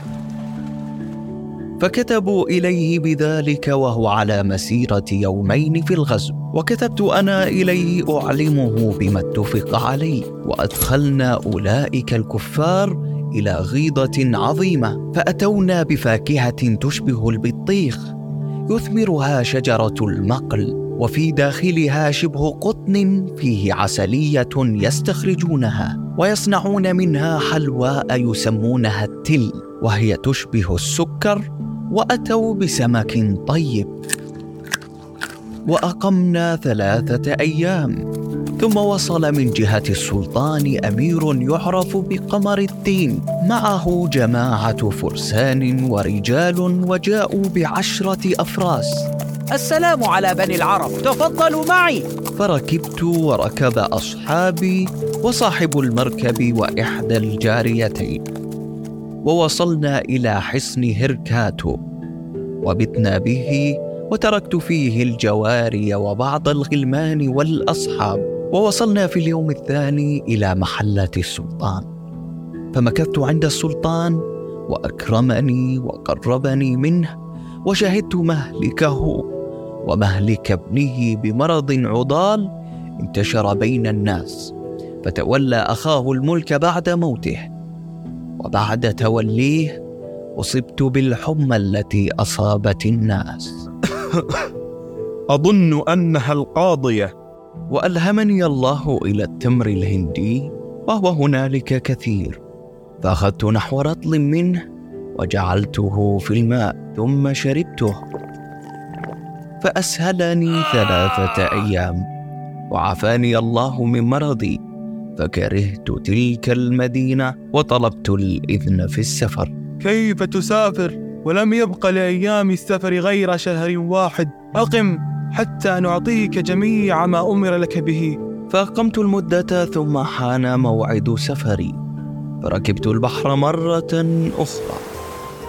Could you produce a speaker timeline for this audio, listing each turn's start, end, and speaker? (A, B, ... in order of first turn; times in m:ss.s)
0:01.8-0:18.1 A
0:18.7-0:31.4 A
0:31.9-0:33.9 A
0:35.7-0:38.0 A
0:38.6-0:49.0 A
0:49.6-0:52.0 B
0:52.4-0:58.2 A
0:59.3-1:01.8 A
1:02.6-1:11.9 A
1:12.7-1:17.1 A
1:17.7-1:19.2 A
1:19.9-1:22.5 A
1:23.0-1:24.5 A
1:25.0-1:27.5 A
1:28.4-1:29.7 A
1:30.4-1:33.6 A
1:34.1-1:34.5 C
1:35.3-1:37.1 C
1:37.7-1:42.4 A
1:43.0-1:44.6 A
1:45.2-1:48.0 A
1:49.6-1:52.0 A
1:52.7-1:54.6 A
1:55.2-1:59.5 A
1:59.8-2:08.1 D
2:08.5-2:11.8 A
2:12.4-2:14.8 A